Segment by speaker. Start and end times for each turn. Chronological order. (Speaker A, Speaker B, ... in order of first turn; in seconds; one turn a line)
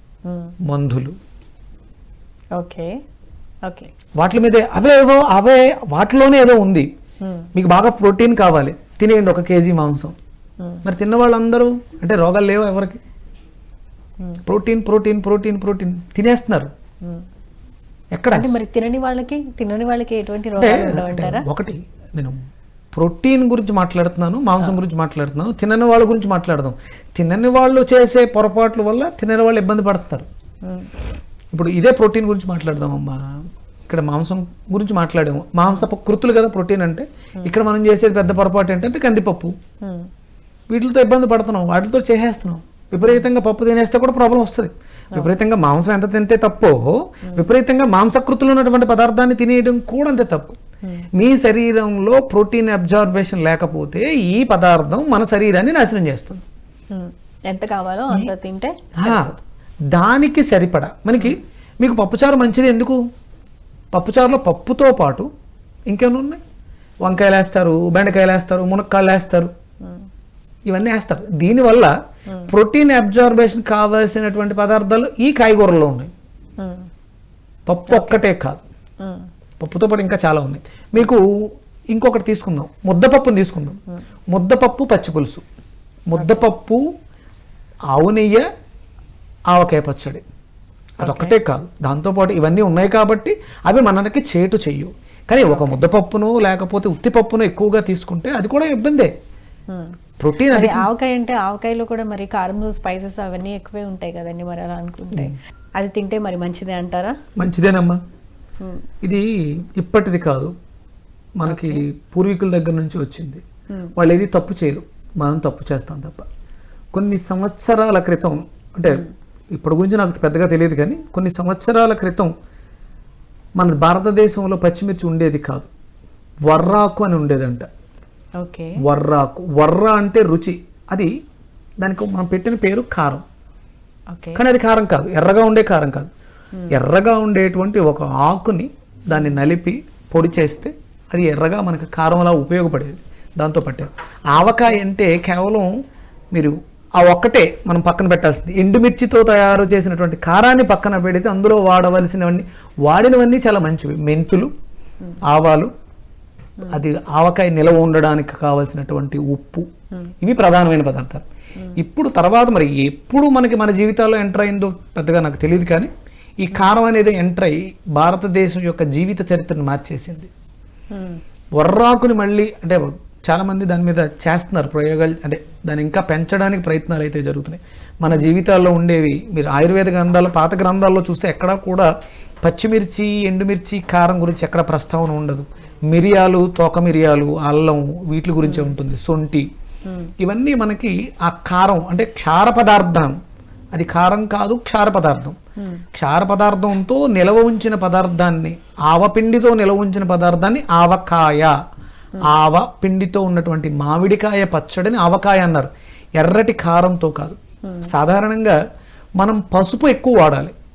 Speaker A: 0.3-0.5
Speaker B: 0.7-1.1
Speaker A: 2.5-2.9
Speaker A: 3.6-3.9
Speaker B: 4.2-6.9
Speaker A: 7.2-7.5
Speaker B: 7.5-10.2
Speaker B: 10.8-13.0
Speaker B: 14.4-16.7
Speaker B: 18.1-18.6
Speaker A: 18.3-21.5
Speaker B: 20.6-22.4
Speaker B: 22.9-30.3
Speaker A: 30.6-30.9
Speaker B: 31.5-39.6
Speaker A: 39.8-40.1
Speaker B: 40.7-50.6
Speaker A: 50.8-51.1
Speaker B: 51.1-56.4
Speaker A: 56.9-59.4
Speaker B: 59.0-59.4
Speaker B: 59.9-63.0
Speaker B: 63.9-65.3
Speaker B: 65.9-66.4
Speaker B: 67.0-69.5
Speaker B: 70.7-71.9
Speaker B: 72.5-76.1
Speaker A: 76.6-76.9
Speaker B: 77.7-78.6
Speaker A: 77.9-78.2
Speaker A: 79.0-79.3
Speaker B: 79.6-81.2
Speaker B: 81.9-83.8
Speaker B: 84.3-85.4
Speaker B: 86.1-86.8
Speaker A: 86.2-86.5
Speaker B: 87.9-88.5
Speaker B: 89.5-90.2
Speaker B: 91.0-99.1
Speaker A: 91.0-91.4
Speaker A: 95.5-95.8
Speaker A: 99.7-100.0
Speaker B: 100.2-100.9
Speaker A: 100.5-107.2
Speaker B: 107.4-108.0
Speaker B: 109.0-110.5
Speaker B: 111.4-113.4
Speaker A: 111.5-111.8
Speaker B: 114.0-116.3
Speaker B: 116.9-119.0
Speaker B: 119.6-122.3
Speaker B: 123.6-125.7
Speaker B: 126.5-127.7
Speaker A: 128.4-128.8
Speaker B: 128.8-131.1
Speaker B: 131.8-133.2
Speaker A: 134.1-134.4
Speaker B: 134.3-136.1
Speaker B: 136.7-145.7
Speaker A: 144.5-144.7
Speaker B: 146.3-154.5
Speaker B: 155.3-155.7
Speaker B: 156.7-159.7
Speaker B: 160.2-161.2
Speaker B: 161.8-165.9
Speaker B: 166.4-170.3
Speaker A: 170.9-171.2
Speaker B: 171.6-181.9
Speaker B: 182.4-189.5
Speaker A: 188.4-188.8
Speaker A: 189.9-190.1
Speaker B: 190.2-193.2
Speaker B: 193.7-195.4
Speaker A: 195.6-195.8
Speaker B: 195.9-201.5
Speaker B: 202.2-208.6
Speaker A: 207.7-207.9
Speaker B: 209.2-210.5